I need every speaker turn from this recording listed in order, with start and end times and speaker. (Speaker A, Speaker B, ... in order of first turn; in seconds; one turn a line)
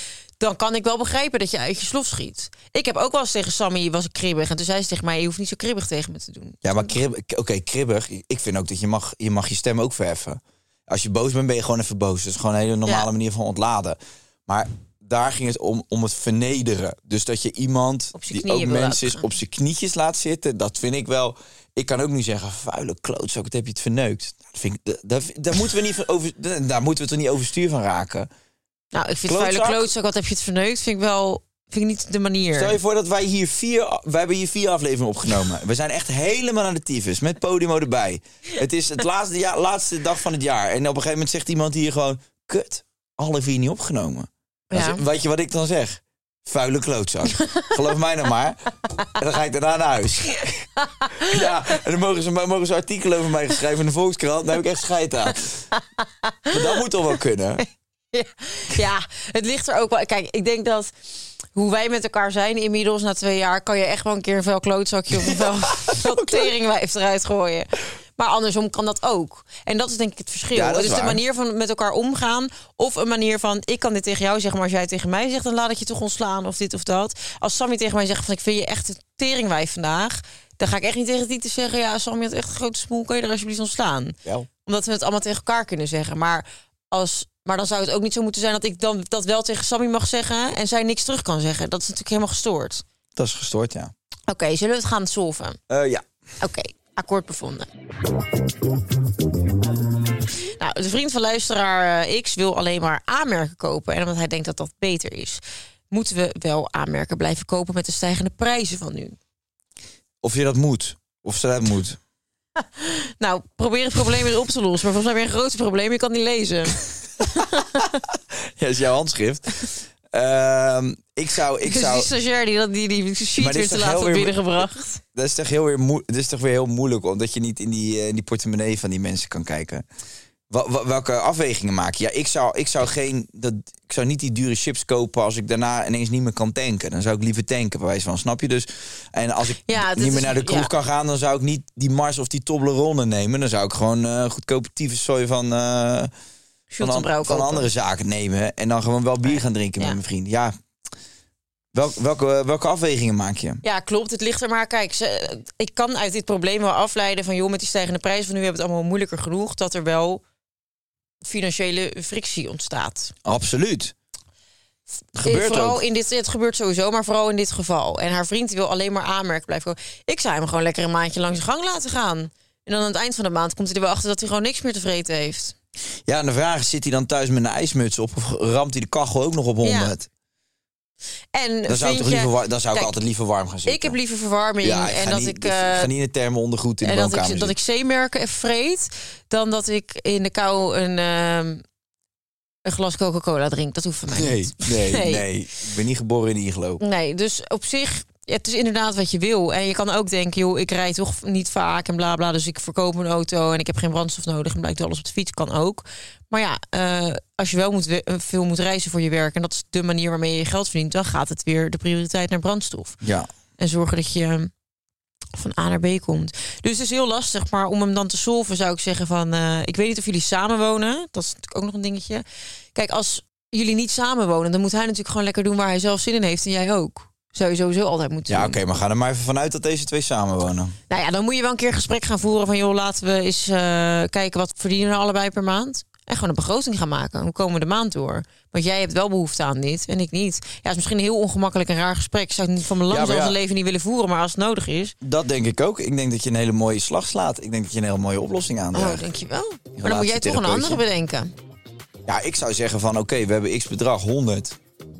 Speaker A: 0.4-7.0
Speaker B: 6.6-28.3
Speaker A: 18.1-19.3
Speaker A: 28.9-32.8
Speaker B: 29.3-29.9
Speaker B: 32.5-55.6
Speaker A: 44.7-45.0
Speaker A: 51.0-51.4
Speaker A: 55.8-56.8
Speaker B: 56.5-57.6
Speaker A: 58.1-60.9
Speaker A: 61.5-92.8
Speaker B: 65.1-66.5
Speaker B: 70.5-71.2
Speaker B: 93.2-93.9
Speaker A: 94.3-95.6
Speaker B: 95.7-96.0
Speaker A: 96.4-97.7
Speaker A: 100.5-109.2
Speaker B: 110.2-112.0
Speaker A: 112.6-117.9
Speaker B: 118.6-122.1
Speaker A: 121.6-125.0
Speaker B: 123.4-129.8
Speaker B: 130.5-146.1
Speaker A: 139.6-140.7
Speaker A: 146.7-147.7
Speaker B: 146.8-150.5
Speaker A: 149.2-150.0
Speaker B: 151.7-153.6
Speaker A: 153.6-160.2
Speaker A: 161.2-163.1
Speaker B: 163.3-163.9
Speaker B: 165.2-165.8
Speaker A: 165.2-175.6
Speaker B: 176.1-180.1
Speaker A: 179.6-179.9
Speaker A: 181.3-182.9
Speaker B: 181.7-184.0
Speaker A: 183.7-185.9
Speaker B: 184.6-187.5
Speaker A: 186.8-191.6
Speaker A: 192.7-195.2
Speaker B: 194.1-196.8
Speaker A: 196.8-213.0
Speaker B: 213.0-213.3
Speaker A: 213.6-214.5
Speaker A: 215.4-222.2
Speaker A: 222.8-228.6
Speaker B: 228.3-230.8
Speaker A: 230.9-244.9
Speaker B: 242.9-243.4
Speaker B: 245.0-249.1
Speaker A: 248.7-251.3
Speaker B: 249.8-250.8
Speaker B: 252.1-254.6